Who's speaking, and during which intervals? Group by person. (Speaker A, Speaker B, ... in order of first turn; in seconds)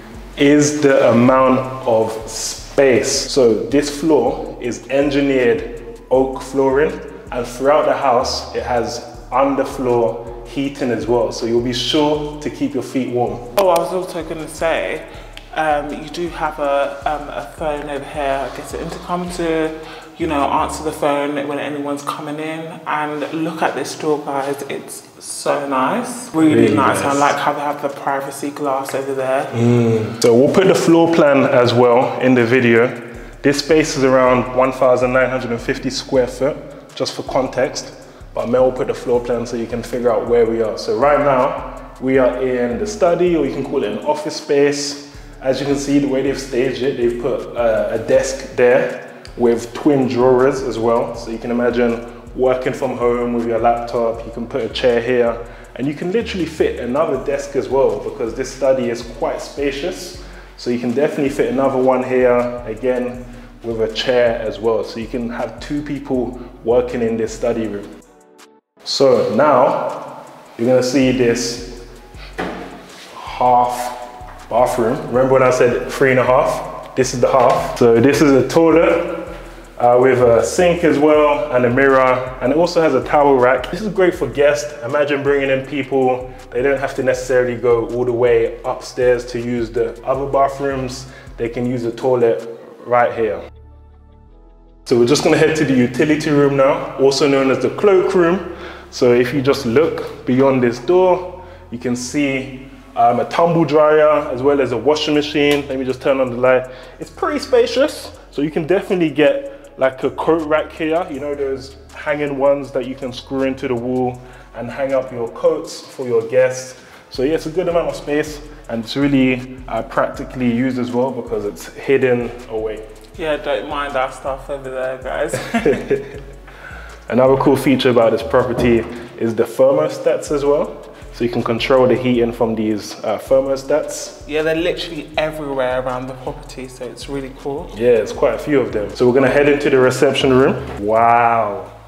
Speaker A: 0.4-13.5, 26.4-27.4, 29.5-67.9, 68.8-71.8, 73.1-93.4, 94.8-122.8, 125.6-126.2, 127.1-134.2, 137.7-141.7
Speaker B: 13.6-29.5, 123.1-125.9, 134.2-137.7